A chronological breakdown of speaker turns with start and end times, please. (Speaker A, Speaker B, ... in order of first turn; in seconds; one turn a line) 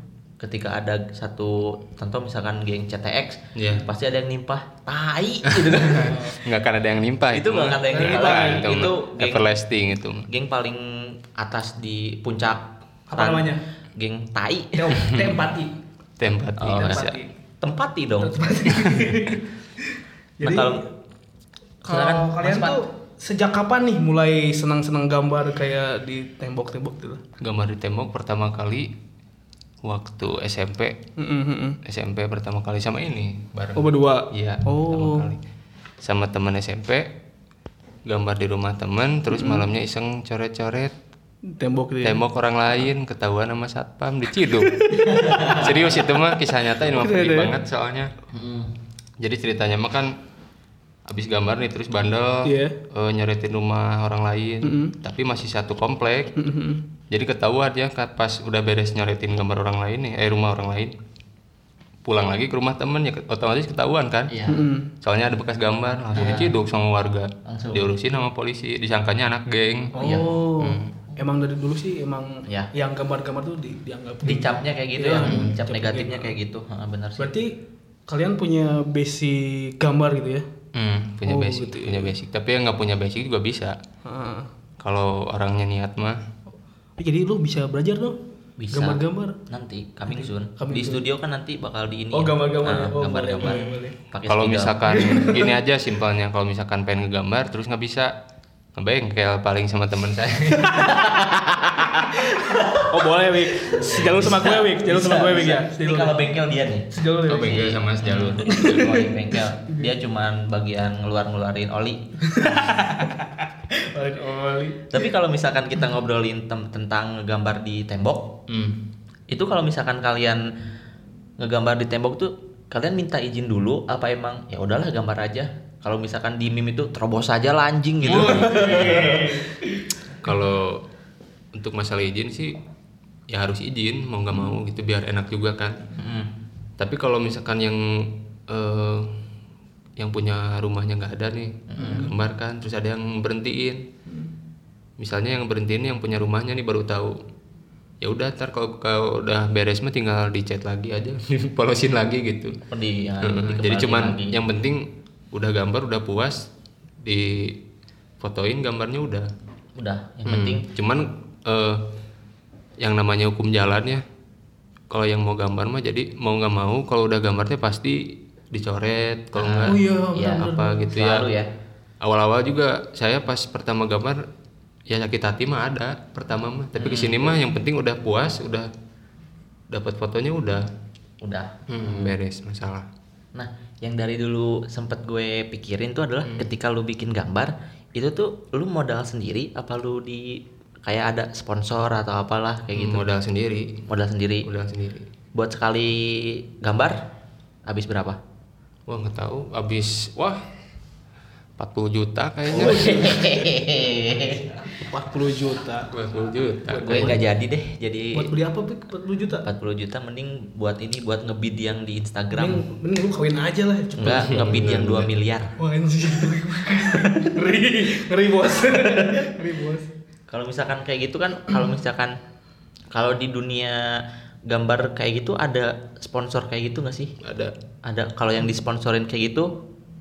Speaker A: 0.4-6.4
Speaker B: 3.5-3.9
Speaker B: 5.5-10.3
Speaker C: 6.0-6.4
Speaker A: 7.3-9.5
Speaker C: 7.9-8.9
Speaker A: 10.3-15.3
Speaker C: 13.1-13.6
Speaker C: 14.8-15.7
Speaker B: 16.2-17.1
Speaker A: 16.6-17.1
Speaker C: 16.7-17.3
Speaker A: 17.6-18.9
Speaker C: 18.2-20.9
Speaker A: 20.4-20.8
Speaker C: 21.8-27.2
Speaker A: 21.9-22.8
Speaker B: 27.4-28.9
Speaker B: 29.8-31.0
Speaker C: 31.2-31.8
Speaker B: 31.8-35.4
Speaker C: 33.8-35.3
Speaker B: 36.0-37.1
Speaker B: 38.0-40.9
Speaker C: 39.3-39.6
Speaker C: 41.5-42.2
Speaker B: 42.0-44.9
Speaker C: 44.5-45.8
Speaker A: 45.2-45.6
Speaker B: 45.5-48.1
Speaker C: 46.9-47.5
Speaker A: 48.3-48.7
Speaker B: 49.2-50.1
Speaker B: 51.0-56.3
Speaker C: 52.4-52.8
Speaker C: 54.6-55.0
Speaker C: 56.4-56.9
Speaker B: 57.1-60.9
Speaker B: 62.0-64.3
Speaker A: 64.3-64.6
Speaker C: 64.5-64.9
Speaker B: 65.0-70.0
Speaker A: 66.1-66.5
Speaker A: 67.5-67.9
Speaker C: 69.9-76.3
Speaker A: 70.0-70.3
Speaker B: 70.6-70.9
Speaker A: 72.5-72.7
Speaker A: 74.2-77.3
Speaker B: 75.2-75.5
Speaker C: 77.2-77.5
Speaker C: 78.1-80.5
Speaker B: 80.7-83.8
Speaker C: 81.2-82.1
Speaker C: 84.0-84.5
Speaker B: 84.8-86.2
Speaker C: 87.0-88.2
Speaker A: 88.6-95.3
Speaker C: 88.7-89.4
Speaker C: 90.1-91.0
Speaker C: 92.1-93.9
Speaker B: 93.4-98.1
Speaker C: 94.9-95.5
Speaker B: 98.7-101.0
Speaker A: 100.7-103.0
Speaker C: 101.9-106.3
Speaker A: 103.6-106.9
Speaker C: 106.9-109.9
Speaker B: 107.2-108.7
Speaker A: 107.4-112.9
Speaker C: 112.3-115.0
Speaker A: 114.9-118.4
Speaker B: 118.5-118.8
Speaker A: 119.3-120.4
Speaker A: 121.4-129.4
Speaker C: 128.0-129.8
Speaker B: 128.1-129.1
Speaker B: 130.2-130.8
Speaker B: 131.5-132.6
Speaker B: 133.3-135.8
Speaker A: 135.9-136.3
Speaker B: 136.8-139.2
Speaker B: 140.0-143.9
Speaker A: 141.7-142.1
Speaker C: 141.8-142.1
Speaker B: 145.0-147.2
Speaker B: 148.0-152.6
Speaker A: 152.7-154.4
Speaker B: 153.2-157.6
Speaker B: 158.2-159.3
Speaker A: 159.8-160.7
Speaker B: 160.3-161.9
Speaker B: 162.8-164.0
Speaker B: 164.9-169.8
Speaker A: 169.3-171.5
Speaker C: 169.7-170.9
Speaker B: 170.4-171.3
Speaker B: 172.0-174.2
Speaker B: 174.9-178.7
Speaker A: 176.8-177.3
Speaker B: 179.7-180.7
Speaker A: 181.2-182.2
Speaker B: 181.7-182.9
Speaker A: 183.3-193.0
Speaker B: 192.7-193.8
Speaker A: 193.9-194.5
Speaker B: 194.4-195.1
Speaker A: 195.3-196.9
Speaker A: 197.7-198.2
Speaker B: 198.9-200.4
Speaker B: 201.6-203.2
Speaker A: 202.5-204.6
Speaker C: 202.5-203.4
Speaker C: 204.7-205.9
Speaker B: 205.9-207.2
Speaker C: 206.7-207.2
Speaker A: 206.8-208.3
Speaker C: 208.1-209.4
Speaker A: 209.4-212.6
Speaker C: 212.3-214.5
Speaker A: 214.0-215.5
Speaker B: 214.1-215.1
Speaker C: 215.6-219.9
Speaker A: 216.9-217.2
Speaker A: 220.3-222.2
Speaker A: 222.9-227.1
Speaker B: 227.2-227.5
Speaker A: 227.8-229.5